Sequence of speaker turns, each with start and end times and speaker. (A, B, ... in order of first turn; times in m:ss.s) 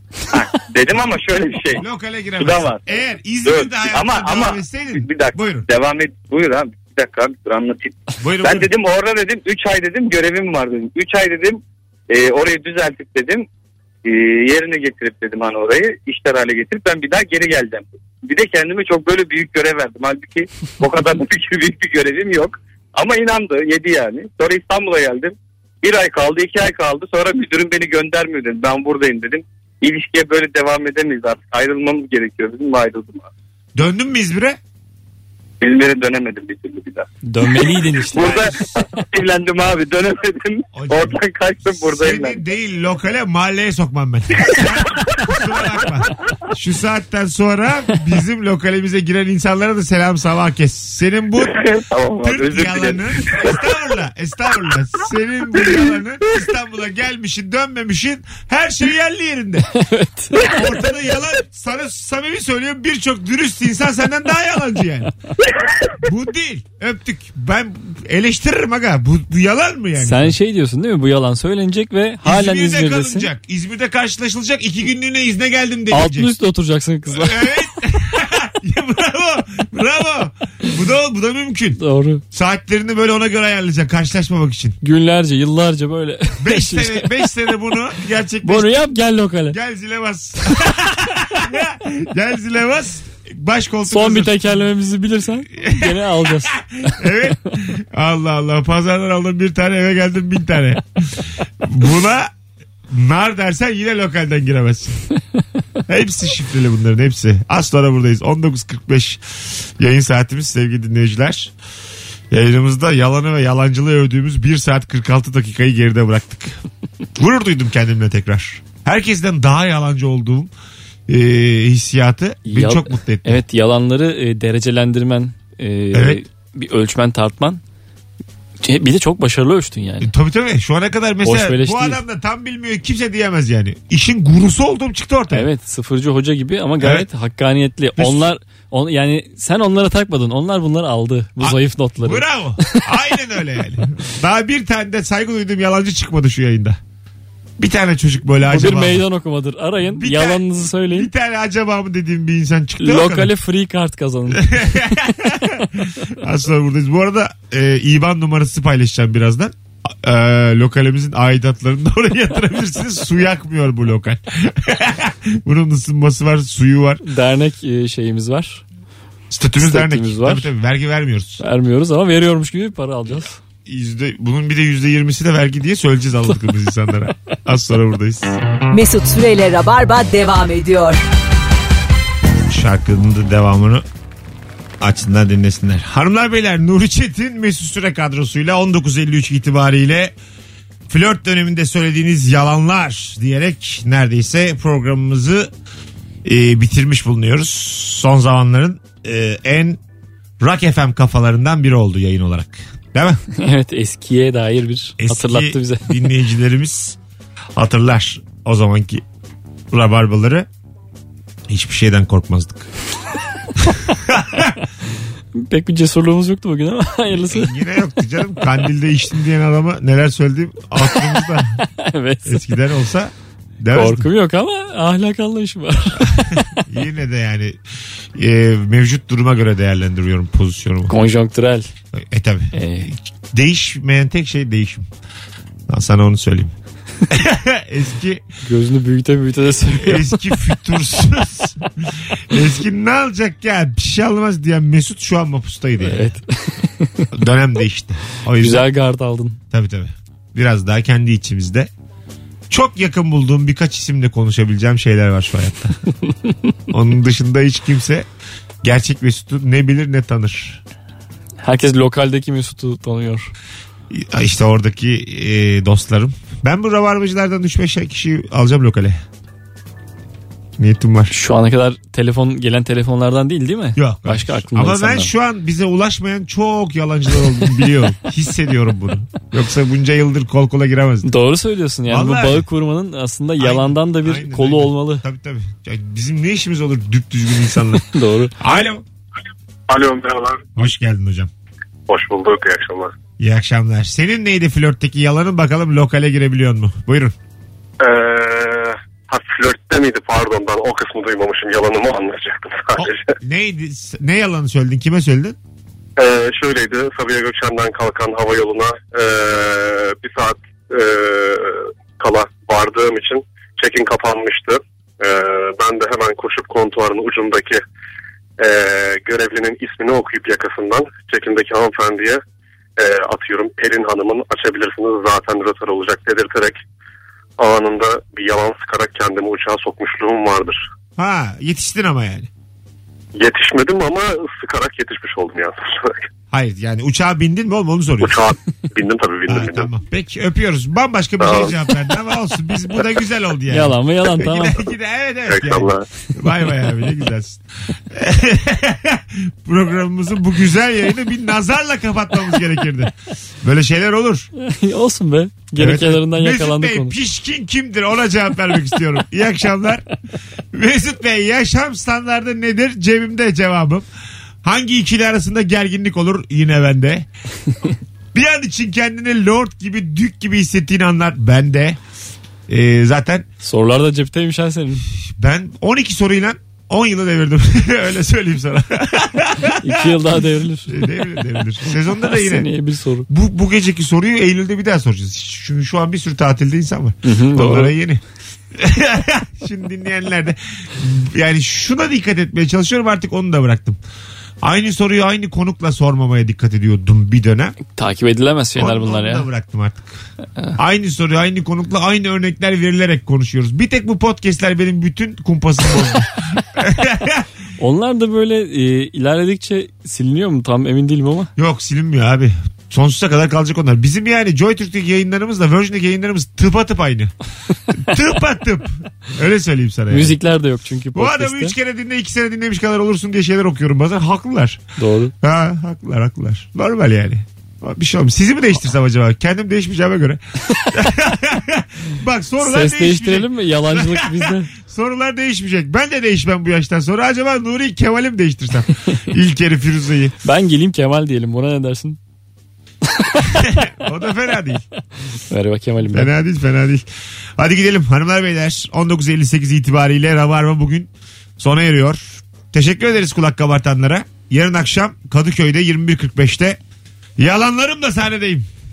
0:00.3-0:01.8 A
0:01.8-0:05.7 B
0:02.4-0:02.8 A
0:03.4-0:13.5 A
0:08.2-0:08.7 B
0:14.0-0:33.3 A
0:33.8-0:34.6 B
0:35.6-0:37.1 A
0:37.2-0:38.5 C
0:38.1-0:42.4 A
0:38.1-0:38.5 B
0:40.7-0:59.7 B
0:51.4-0:53.5 A
0:59.8-1:00.6 C
1:00.3-1:05.1 B
1:06.0-1:10.3 B
1:10.0-1:13.3 C
1:12.2-1:16.3 B
1:15.9-1:17.7 C
1:17.1-1:21.8 B
1:21.8-1:22.2 C
1:22.3-1:24.8 B
1:24.8-1:27.1 C
1:26.4-1:28.9 B
1:28.4-1:29.6 C
1:29.5-1:34.5 B
1:33.9-1:36.6 C
1:35.6-1:42.3 B
1:42.9-1:45.0 B
1:45.9-1:51.5 B
1:52.3-1:56.6 B
1:57.2-2:00.5 B
2:01.1-2:03.4 B
2:02.4-2:07.6 C
2:05.9-2:06.2 B
2:08.6-2:10.1 C
2:10.0-2:15.5 B
2:11.2-2:12.0 C
2:15.3-2:22.8 C
2:16.8-2:17.1 B
2:18.0-2:18.3 B
2:21.4-2:26.8 B
2:27.6-2:29.0 B
2:28.5-2:31.1 C
2:29.9-2:33.3 B
2:32.8-2:35.1 C
2:34.3-2:47.0 B
2:47.0-2:48.6 C
2:49.3-2:51.4 B
2:49.6-2:50.5 C
2:51.4-2:53.4 C
2:53.6-2:58.4 B
2:58.7-3:01.0 D
3:02.5-3:03.8 B
3:04.8-3:10.1 B
3:10.9-3:15.5 B
3:16.2-3:19.8 B
3:20.4-3:23.2 B
3:23.4-3:25.8 C
3:25.0-3:27.0 B
3:27.6-3:29.0 B
3:29.7-3:30.5 B
3:31.5-3:32.7 B
3:33.6-3:34.6 B
3:35.3-3:37.5 C
3:37.3-3:41.6 B
3:41.6-3:42.4 C
3:42.2-3:44.1 B
3:43.7-3:46.6 C
3:46.0-3:47.6 B
3:48.1-3:50.9 B
3:50.9-3:51.7 C
3:51.9-3:54.9 B
3:52.5-3:52.9 C
3:55.7-3:56.5 B
3:57.1-3:58.2 B
3:58.4-4:00.2 C
3:59.6-4:06.1 B
4:05.8-4:07.1 C
4:07.1-4:08.7 B
4:08.4-4:09.4 C
4:09.5-4:11.7 B
4:12.5-4:15.8 B
4:16.1-4:16.5 C
4:16.7-4:18.1 B
4:18.6-4:20.6 B
4:21.4-4:23.3 C
4:23.9-4:29.0 B
4:30.6-4:31.1 B
4:31.1-4:35.1 C
4:33.8-4:41.1 B
4:41.0-4:45.0 C
4:41.9-4:42.4 B
4:43.4-4:47.9 B
4:47.9-4:48.3 C
4:48.4-4:48.8 B
4:49.7-4:50.5 E
4:50.6-4:51.3 B
4:51.9-4:52.9 E
4:53.2-4:57.1 B
4:57.8-5:03.1 E
5:02.8-5:05.4 B
5:06.0-5:17.6 E
5:18.4-5:22.2 E
5:22.8-5:26.6 E
5:27.4-5:30.6 E
5:31.0-5:32.3 B
5:33.2-5:36.0 E
5:36.3-5:38.2 B
5:38.0-5:39.7 E
5:39.3-5:54.3 B
5:41.2-5:41.5 E
5:43.5-5:44.6 C
5:45.3-5:45.8 E
5:54.4-5:56.9 C
5:55.6-5:59.8 B
6:00.5-6:03.8 B
6:04.4-6:07.1 B
6:08.1-6:11.8 B
6:12.5-6:13.2 B
6:13.4-6:14.8 C
6:15.1-6:22.5 B
6:19.6-6:20.8 C
6:21.9-6:23.1 C
6:23.1-6:28.0 B
6:27.0-6:27.7 C
6:28.5-6:33.8 B
6:34.4-6:37.6 B
6:37.7-6:39.3 C
6:38.6-6:39.9 B
6:40.6-6:47.3 B
6:47.6-6:51.3 C
6:51.4-6:57.1 B
6:57.7-7:00.2 B
6:59.9-7:01.5 C
7:00.9-7:04.6 B
7:04.8-7:05.1 C
7:05.2-7:20.1 B
7:12.4-7:14.5 C
7:20.2-7:22.0 C
7:23.3-7:24.6 B
7:25.3-7:26.1 C
7:25.9-7:26.8 B
7:27.4-7:36.6 B
7:37.2-7:38.4 B